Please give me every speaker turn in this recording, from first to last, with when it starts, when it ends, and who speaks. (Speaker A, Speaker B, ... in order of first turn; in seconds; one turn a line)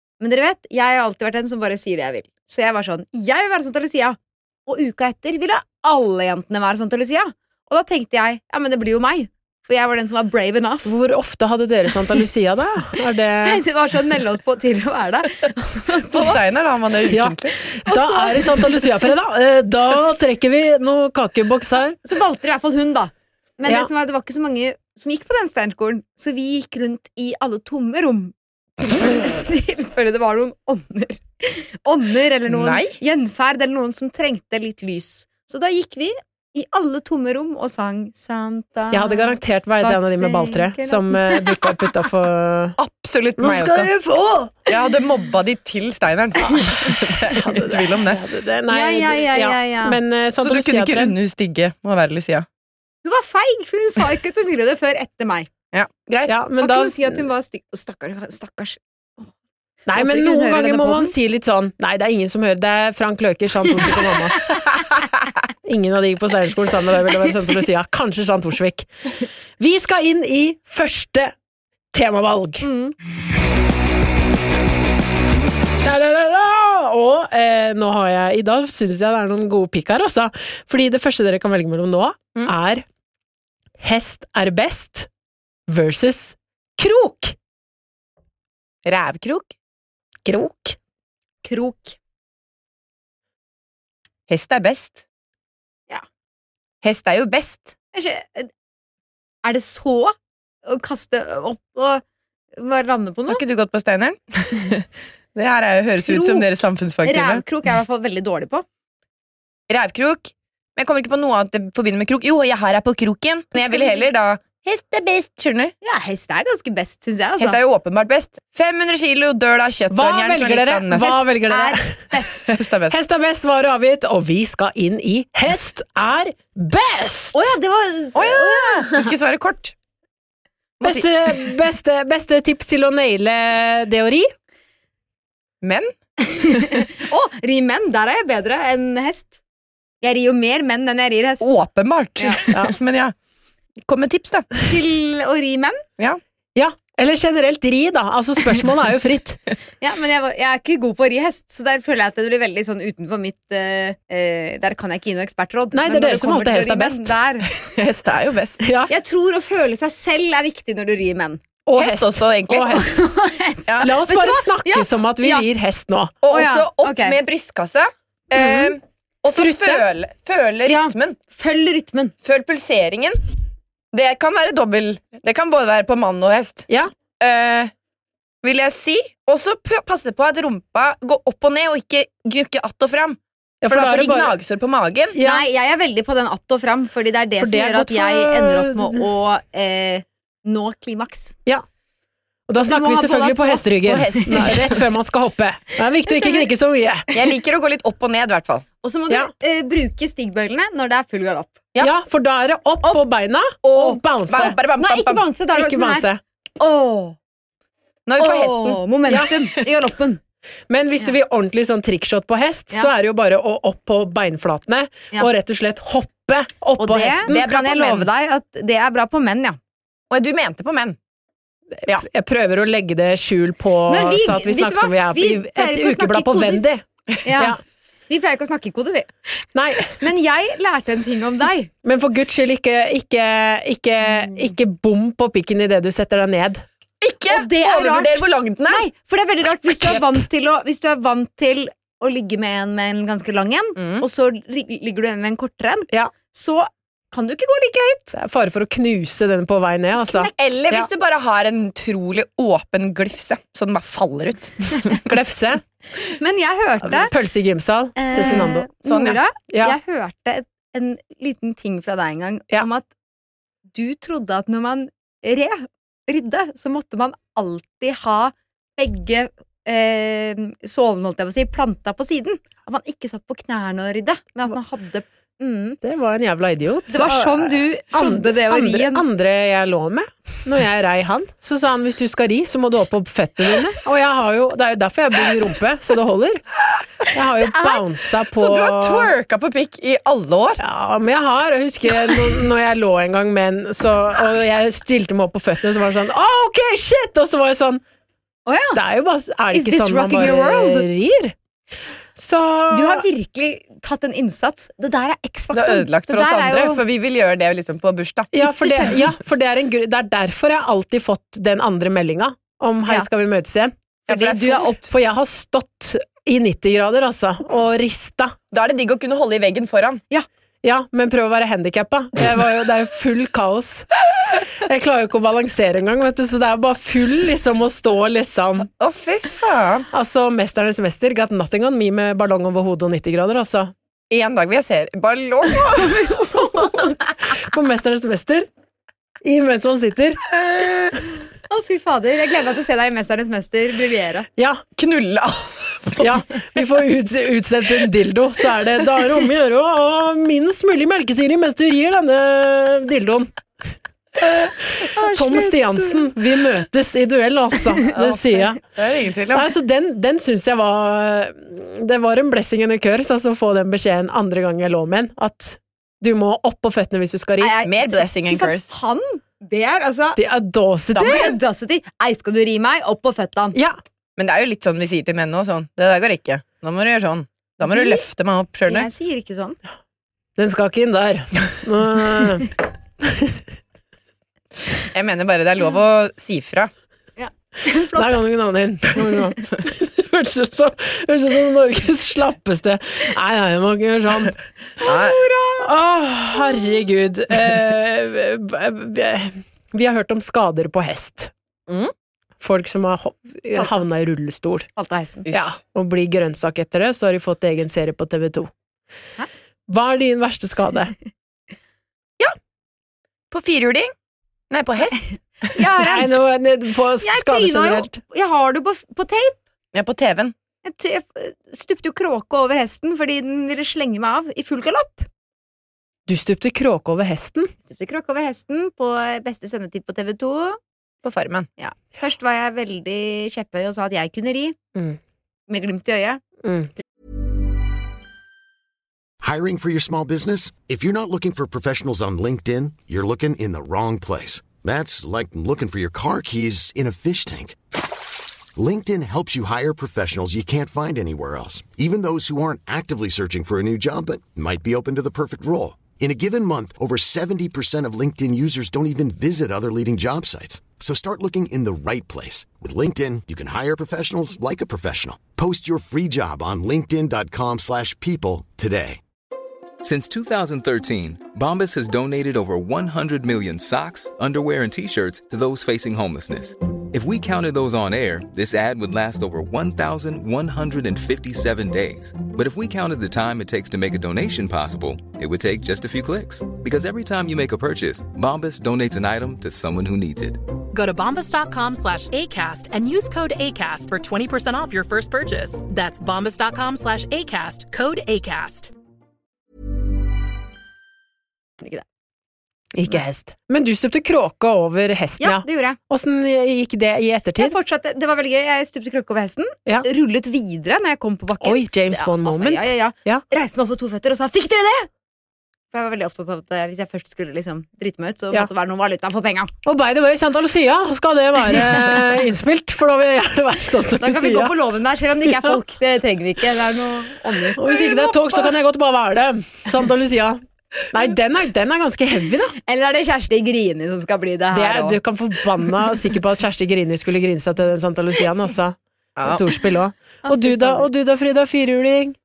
Speaker A: 0.2-10.9
Speaker B: 10.8-13.6
Speaker A: 13.4-16.4
Speaker C: 16.1-17.6
Speaker B: 17.1-22.0
Speaker A: 17.9-18.9
Speaker A: 22.0-41.9
Speaker C: 32.5-33.0
Speaker B: 38.9-42.8
Speaker C: 42.8-43.9
Speaker B: 43.4-44.5
Speaker C: 44.7-48.2
Speaker B: 47.3-51.1
Speaker A: 48.7-50.0
Speaker C: 50.4-52.5
Speaker A: 53.0-55.5
Speaker C: 55.7-56.4
Speaker B: 56.3-57.2
Speaker A: 56.6-59.2
Speaker B: 59.9-64.5
Speaker A: 60.0-61.1
Speaker B: 65.7-68.9
Speaker B: 69.6-71.3
Speaker B: 71.9-72.7
Speaker A: 72.6-73.0
Speaker B: 75.8-82.8
Speaker B: 83.8-85.1
Speaker B: 85.7-87.3
Speaker C: 88.8-89.5
Speaker B: 90.3-90.8
Speaker A: 91.4-92.0
Speaker C: 94.3-95.0
Speaker C: 96.8-97.7
Speaker A: 97.9-98.5
Speaker A: 99.4-102.0
Speaker A: 102.6-103.4
Speaker C: 103.3-107.4
Speaker A: 106.0-106.5
Speaker A: 107.0-108.7
Speaker C: 109.7-115.7
Speaker A: 113.6-114.1
Speaker A: 115.8-117.6
Speaker C: 117.4-121.1
Speaker B: 119.9-122.0
Speaker A: 120.9-122.5
Speaker C: 122.5-123.0
Speaker B: 122.9-127.5
Speaker A: 127.3-129.1
Speaker C: 128.2-129.7
Speaker C: 130.8-131.4
Speaker B: 130.8-134.3
Speaker C: 135.6-135.9
Speaker A: 136.2-139.4
Speaker A: 140.0-141.5
Speaker C: 141.4-143.1
Speaker C: 143.8-144.5
Speaker A: 144.6-145.8
Speaker B: 146.6-149.4
Speaker A: 149.8-157.5
Speaker B: 155.7-157.1
Speaker C: 157.6-158.6
Speaker B: 158.6-158.9
Speaker A: 158.9-161.4
Speaker B: 161.7-162.9
Speaker C: 161.8-162.8
Speaker A: 162.7-165.5
Speaker B: 163.8-166.1
Speaker C: 166.2-171.2
Speaker A: 166.3-167.2
Speaker B: 169.3-169.8
Speaker A: 170.7-172.1
Speaker C: 172.2-173.2
Speaker C: 173.9-176.7
Speaker C: 177.2-177.7
Speaker C: 178.4-185.2
Speaker B: 183.6-184.3
Speaker B: 185.2-185.4
Speaker A: 185.2-191.4
Speaker B: 187.4-189.1
Speaker B: 192.5-197.1
Speaker A: 192.6-193.8
Speaker C: 193.8-194.7
Speaker A: 196.1-196.4
Speaker C: 197.1-198.7
Speaker A: 198.8-201.6
Speaker B: 201.8-204.6
Speaker A: 203.6-206.1
Speaker C: 204.3-205.2
Speaker B: 205.5-206.2
Speaker A: 206.6-207.2
Speaker C: 208.1-208.8
Speaker A: 208.2-210.2
Speaker B: 210.7-217.4
Speaker A: 216.8-219.6
Speaker C: 217.3-218.1
Speaker C: 220.1-221.0
Speaker B: 221.8-226.8
Speaker A: 223.9-226.6
Speaker A: 227.2-227.6
Speaker A: 228.1-229.1
Speaker B: 229.6-229.9
Speaker A: 230.0-231.7
Speaker B: 231.8-236.6
Speaker C: 237.0-238.9
Speaker A: 237.3-248.1
Speaker C: 243.8-244.1
Speaker B: 248.1-250.9
Speaker C: 250.4-255.0
Speaker B: 255.0-255.6
Speaker A: 256.1-257.1
Speaker B: 256.8-258.7
Speaker A: 258.0-262.9
Speaker C: 258.2-259.2
Speaker B: 259.5-259.8
Speaker A: 263.7-275.8
Speaker B: 275.8-286.4
Speaker A: 276.9-279.1
Speaker B: 287.1-289.1
Speaker C: 288.4-290.6
Speaker B: 290.6-297.8
Speaker A: 298.5-298.8
Speaker B: 298.7-301.4
Speaker A: 299.5-300.9
Speaker B: 302.2-303.1
Speaker A: 302.7-306.8
Speaker C: 305.5-308.3
Speaker B: 308.3-313.7
Speaker A: 308.4-309.0
Speaker C: 314.1-314.7
Speaker A: 314.1-314.9
Speaker B: 314.9-318.4
Speaker C: 318.5-320.0
Speaker B: 320.6-323.9
Speaker B: 324.6-328.7
Speaker C: 328.8-329.9
Speaker B: 329.9-333.7
Speaker C: 334.1-336.1
Speaker A: 335.8-336.9
Speaker B: 337.3-338.5
Speaker B: 339.2-340.2
Speaker A: 341.5-344.3
Speaker B: 344.4-344.6
Speaker C: 344.8-346.1
Speaker B: 346.0-353.3
Speaker B: 354.4-358.6
Speaker A: 354.9-356.1
Speaker C: 357.9-359.5
Speaker B: 359.3-367.6
Speaker A: 367.4-370.2
Speaker C: 367.7-368.7
Speaker B: 370.2-371.4
Speaker A: 371.0-373.6
Speaker C: 374.2-378.9
Speaker A: 377.7-378.0
Speaker A: 378.7-379.6
Speaker B: 380.4-383.4
Speaker C: 384.9-386.7
Speaker A: 387.2-388.2
Speaker B: 387.9-394.4
Speaker C: 394.8-395.2
Speaker A: 394.8-395.7
Speaker B: 395.6-401.3
Speaker C: 401.7-401.9
Speaker B: 402.4-404.7
Speaker A: 404.8-405.3
Speaker B: 405.3-408.5
Speaker B: 409.7-410.9
Speaker C: 413.3-413.9
Speaker C: 414.5-415.6
Speaker A: 415.5-416.1
Speaker B: 415.8-418.0
Speaker A: 417.0-419.4
Speaker C: 419.7-420.4
Speaker A: 420.6-425.1
Speaker B: 426.1-427.5
Speaker A: 427.7-430.6
Speaker C: 431.0-431.5
Speaker A: 431.6-434.6
Speaker A: 435.5-436.2
Speaker B: 436.4-436.7
Speaker D: 439.2-447.6
Speaker D: 448.6-469.0
Speaker E: 469.8-490.4
Speaker F: 490.7-498.7
Speaker B: 502.7-507.6
Speaker A: 505.2-505.8
Speaker A: 507.4-514.9
Speaker B: 511.4-513.2
Speaker A: 515.7-519.5
Speaker B: 519.6-524.5
Speaker A: 524.0-528.5
Speaker B: 525.3-525.6
Speaker B: 527.6-532.5
Speaker A: 532.6-535.0
Speaker B: 534.5-542.2
Speaker C: 539.2-539.4
Speaker A: 540.3-540.9